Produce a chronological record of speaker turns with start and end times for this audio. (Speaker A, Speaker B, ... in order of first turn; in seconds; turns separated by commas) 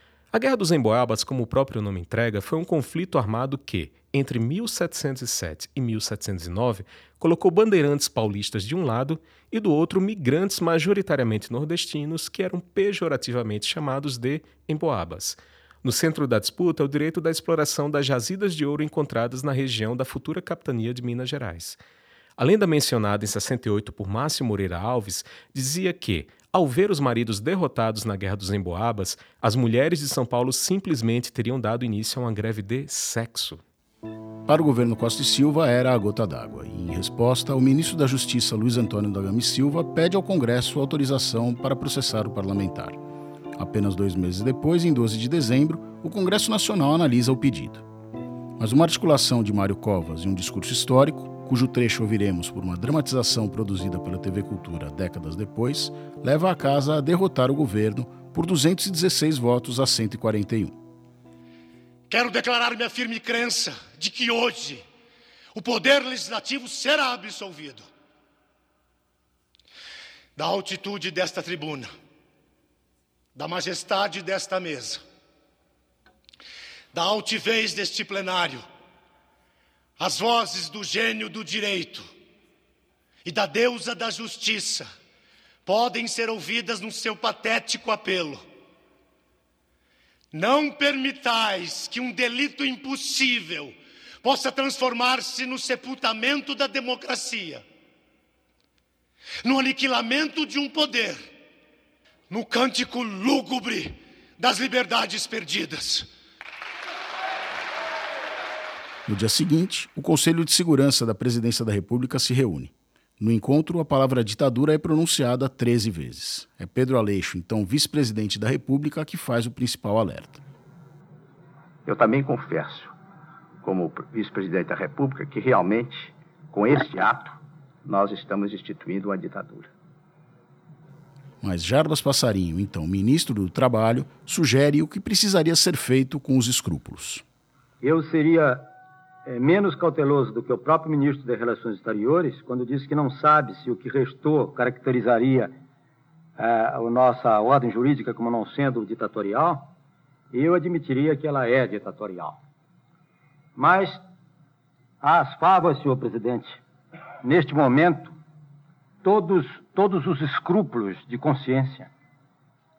Speaker A: 0.3-21.8, Speaker A: 22.4-33.6, Speaker B: 34.5-43.0, Speaker B: 43.5-47.8, Speaker B: 48.6-60.8, Speaker C: 62.1-64.8, Speaker C: 65.5-67.9, Speaker C: 70.3-71.9, Speaker C: 73.3-75.0, Speaker C: 76.9-78.6, Speaker C: 80.0-82.1, Speaker C: 83.2-84.9, Speaker C: 85.6-88.4, Speaker C: 90.3-97.6, Speaker C: 99.4-101.3, Speaker C: 102.3-106.1, Speaker B: 109.1-120.4, Speaker D: 121.8-122.9, Speaker D: 123.6-129.7, Speaker B: 131.4-137.2, Speaker E: 137.8-138.7, Speaker E: 139.3-145.5, Speaker E: 146.4-149.7, Speaker E: 150.3-152.4, Speaker E: 153.6-154.0, Speaker E: 155.0-156.6, Speaker E: 157.2-158.2, Speaker E: 159.0-161.9